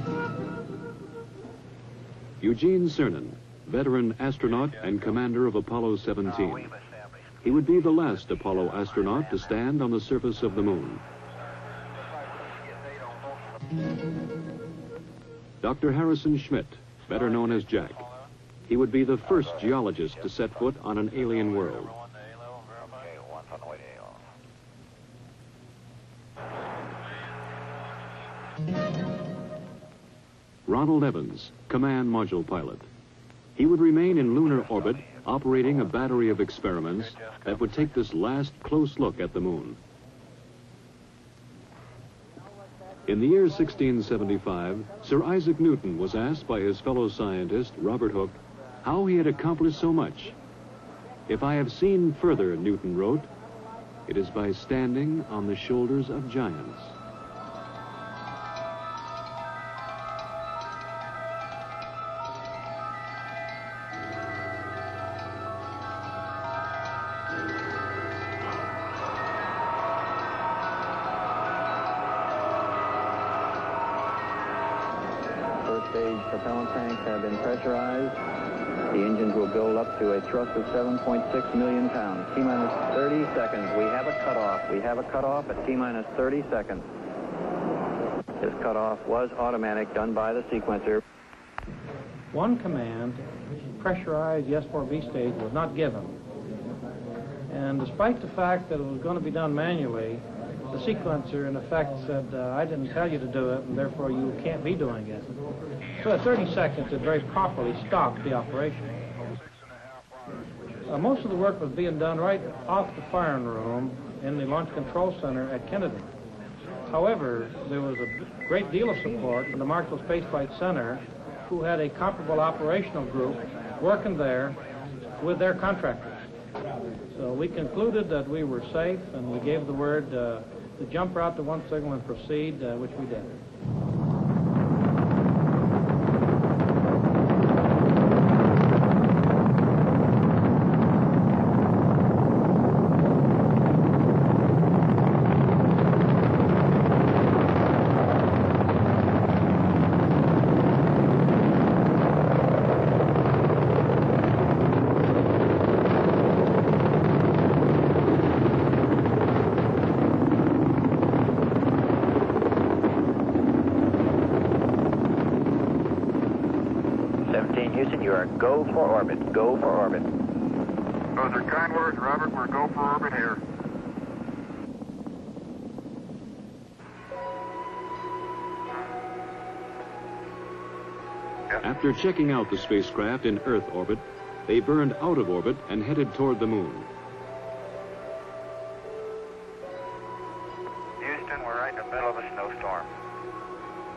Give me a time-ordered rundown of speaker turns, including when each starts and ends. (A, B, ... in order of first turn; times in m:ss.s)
0:02.4-0:06.8 A
0:07.4-0:11.0 A
0:15.6-0:18.1 A
0:18.7-0:21.9 A
0:23.0-0:23.9 B
0:30.7-0:32.9 A
0:33.6-0:39.8 A
0:43.1-0:50.4 A
0:51.3-0:53.3 A
0:54.1-0:57.0 A
1:15.6-1:18.2 B
1:18.9-1:26.9 B
1:28.4-1:31.0 B
1:32.3-1:36.2 C
1:37.5-1:45.4 C
1:46.0-1:49.0 C
1:50.9-1:56.1 C
1:56.9-2:06.3 C
2:07.1-2:13.4 C
2:47.3-2:50.0 B
2:51.2-2:53.4 D
3:01.6-3:06.9 A
3:11.0-3:12.9 B